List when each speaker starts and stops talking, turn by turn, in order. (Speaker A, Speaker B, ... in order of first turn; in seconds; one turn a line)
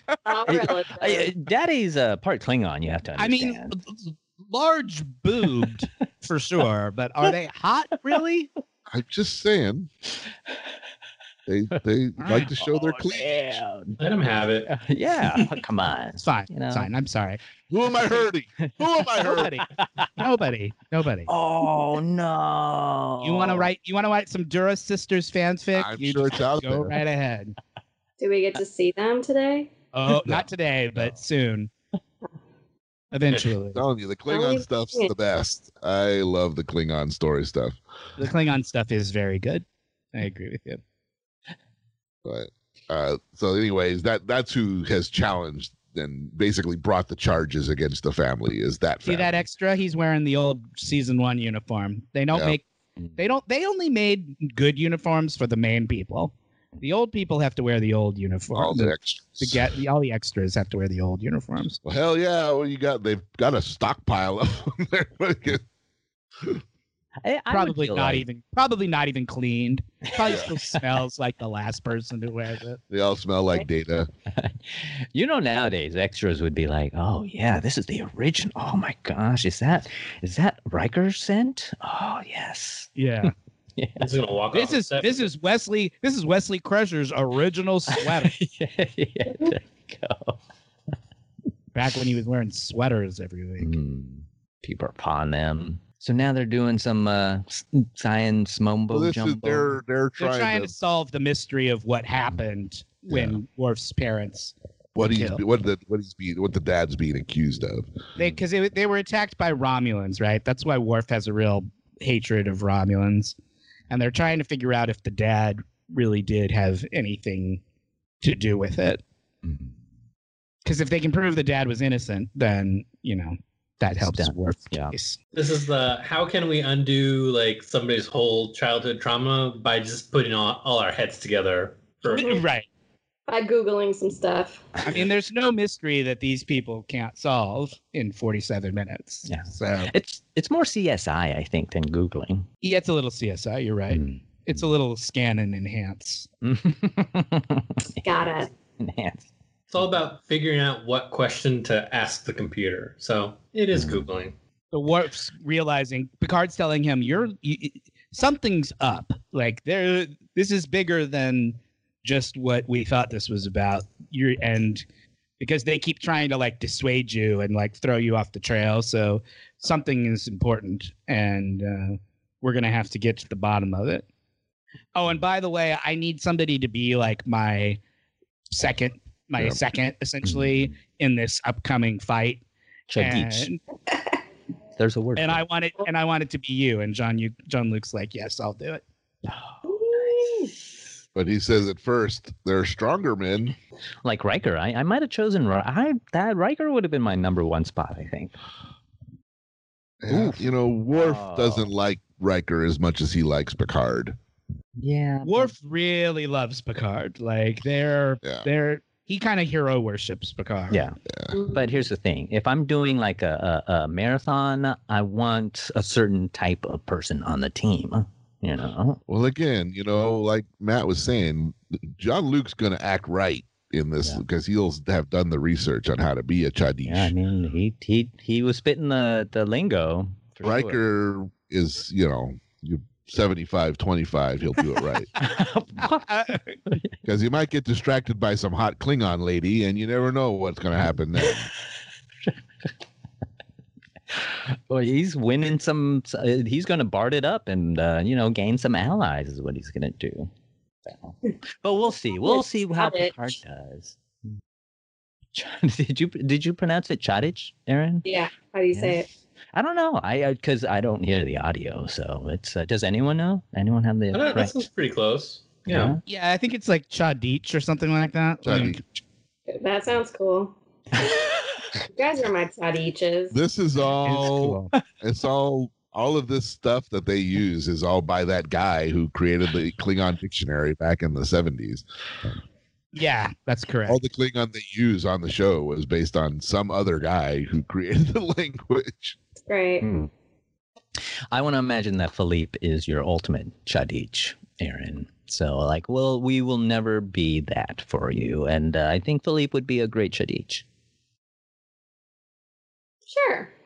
Speaker A: 0.2-1.3
Speaker B: 0.5-3.7
Speaker C: 3.2-8.5
Speaker D: 8.9-9.9
Speaker D: 11.5-13.6
Speaker C: 12.2-12.5
Speaker B: 12.3-14.0
Speaker E: 14.0-14.7
Speaker B: 14.7-16.9
Speaker C: 16.2-17.4
Speaker D: 17.7-19.6
Speaker B: 18.6-20.1
Speaker C: 19.2-21.3
Speaker B: 21.3-23.7
Speaker C: 23.2-27.6
Speaker D: 25.7-27.0
Speaker A: 28.2-29.7
Speaker C: 29.9-31.7
Speaker C: 33.1-33.8
Speaker D: 33.7-37.8
Speaker A: 34.3-35.1
Speaker C: 38.2-40.8
Speaker D: 42.2-49.3
Speaker C: 49.0-52.6
Speaker D: 52.3-52.6
Speaker C: 53.2-61.8
Speaker D: 58.5-59.7
Speaker D: 61.8-65.6
Speaker B: 67.2-68.2
Speaker C: 67.5-72.8
Speaker D: 70.2-70.5
Speaker D: 72.9-74.1
Speaker B: 74.3-84.1
Speaker C: 83.0-83.3
Speaker E: 84.0-85.3
Speaker C: 84.5-88.3
Speaker B: 87.9-90.4
Speaker C: 91.7-93.8
Speaker B: 93.6-99.7
Speaker D: 98.9-100.7
Speaker C: 100.2-105.4
Speaker D: 103.1-103.4
Speaker D: 104.9-107.9
Speaker C: 108.2-113.3
Speaker C: 113.9-117.6
Speaker C: 118.2-119.0
Speaker B: 119.4-119.7
Speaker C: 120.6-125.2
Speaker B: 124.0-124.9
Speaker E: 125.3-132.4
Speaker A: 132.1-132.4
Speaker C: 132.1-132.7
Speaker A: 133.3-134.7
Speaker C: 134.8-139.9
Speaker B: 139.3-142.4
Speaker C: 142.6-146.3
Speaker B: 143.9-144.6
Speaker B: 146.4-148.0
Speaker A: 148.0-148.5
Speaker B: 148.8-149.3
Speaker E: 149.7-154.3
Speaker B: 153.7-154.1
Speaker C: 154.7-164.8
Speaker C: 165.4-174.1
Speaker C: 174.9-177.8
Speaker C: 178.5-182.4
Speaker B: 180.2-180.7
Speaker B: 182.9-183.5
Speaker C: 182.9-183.6
Speaker B: 184.8-185.4
Speaker C: 185.2-188.8
Speaker B: 189.2-190.3
Speaker A: 189.6-190.5
Speaker D: 191.1-193.6
Speaker B: 194.0-198.3
Speaker D: 200.0-204.2
Speaker B: 200.9-201.7
Speaker B: 204.8-205.5
Speaker C: 205.2-210.8
Speaker B: 210.7-210.9
Speaker D: 211.1-211.3
Speaker A: 211.3-211.8
Speaker B: 211.5-219.0
Speaker D: 219.1-227.1
Speaker B: 226.8-230.8
Speaker D: 230.4-235.1
Speaker B: 235.2-236.1
Speaker C: 235.8-236.6
Speaker D: 237.0-241.5
Speaker B: 244.1-250.3
Speaker B: 250.8-254.0
Speaker A: 252.2-253.1
Speaker B: 255.3-258.0
Speaker A: 258.0-259.1
Speaker B: 258.7-264.7
Speaker E: 264.1-266.0
Speaker B: 265.6-266.0
Speaker C: 266.1-268.8
Speaker D: 268.4-268.8
Speaker A: 269.5-271.1
Speaker A: 271.9-273.4
Speaker D: 273.3-281.8
Speaker C: 274.0-274.7
Speaker C: 282.9-284.0
Speaker D: 283.9-289.2
Speaker A: 289.4-289.9
Speaker B: 289.8-290.1
Speaker B: 291.3-300.6
Speaker A: 303.1-303.5